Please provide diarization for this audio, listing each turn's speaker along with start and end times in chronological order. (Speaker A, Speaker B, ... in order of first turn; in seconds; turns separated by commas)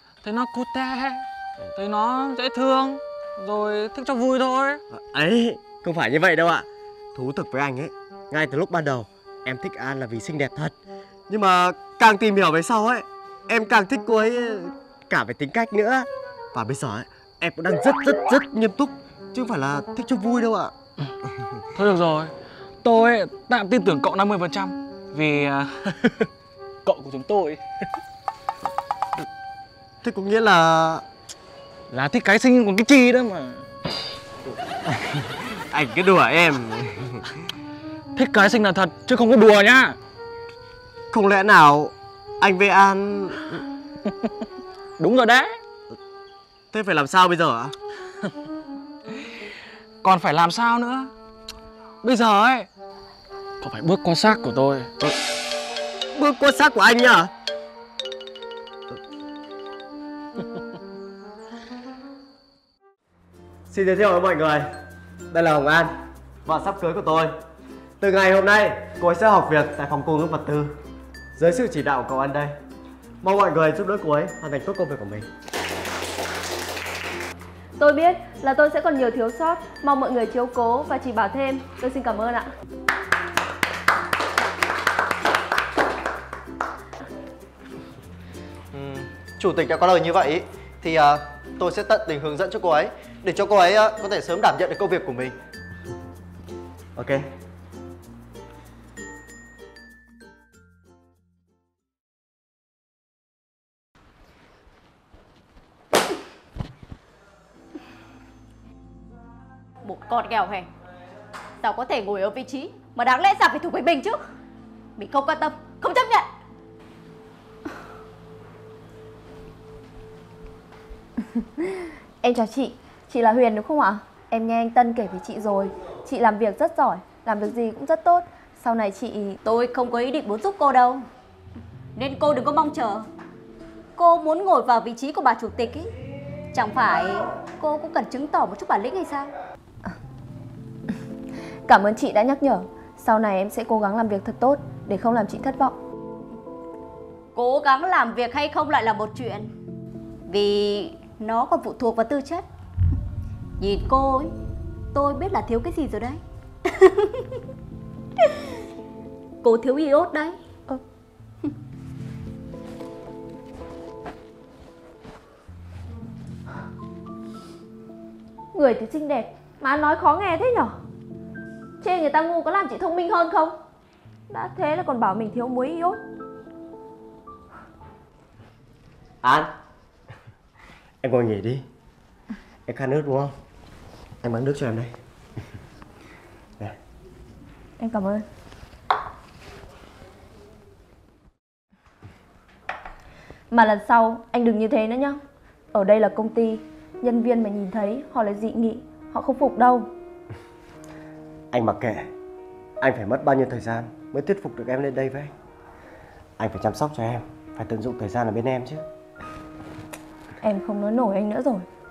Speaker A: 0.2-4.8, Speaker B: 4.9-10.8, Speaker B: 11.3-20.7, Speaker A: 21.8-22.3, Speaker A: 22.8-26.3, Speaker A: 26.9-27.6, Speaker B: 30.0-31.1, Speaker A: 31.9-33.7, Speaker B: 34.9-37.3, Speaker A: 38.1-40.0, Speaker B: 41.1-43.6, Speaker A: 44.1-44.3, Speaker A: 45.0-45.6, Speaker B: 46.7-47.8, Speaker A: 50.0-51.1, Speaker A: 52.0-52.7, Speaker A: 53.6-54.9, Speaker B: 56.1-57.3, Speaker B: 63.7-64.7, Speaker B: 65.3-67.3, Speaker B: 68.0-70.8, Speaker B: 71.4-72.6, Speaker B: 73.2-75.3, Speaker C: 77.8-82.5, Speaker D: 88.7-95.4, Speaker B: 97.0-97.3, Speaker E: 109.8-110.7, Speaker E: 111.6-114.2, Speaker E: 115.0-116.3, Speaker C: 121.6-129.4, Speaker E: 129.4-131.1, Speaker E: 132.0-133.1, Speaker E: 134.0-135.9, Speaker E: 136.5-139.3, Speaker C: 141.7-145.8, Speaker E: 147.3-149.5, Speaker E: 150.3-152.4, Speaker E: 153.6-154.3, Speaker E: 154.9-157.3, Speaker E: 159.4-160.4, Speaker C: 168.5-170.8, Speaker C: 171.8-173.6, Speaker C: 174.3-176.0, Speaker B: 179.2-179.5, Speaker B: 181.0-181.7, Speaker B: 182.7-183.3, Speaker B: 184.2-184.9, Speaker C: 187.8-188.2, Speaker C: 193.5-195.2, Speaker C: 195.7-199.9, Speaker B: 201.5-202.1, Speaker B: 202.8-205.3, Speaker B: 206.4-208.9, Speaker C: 210.4-211.7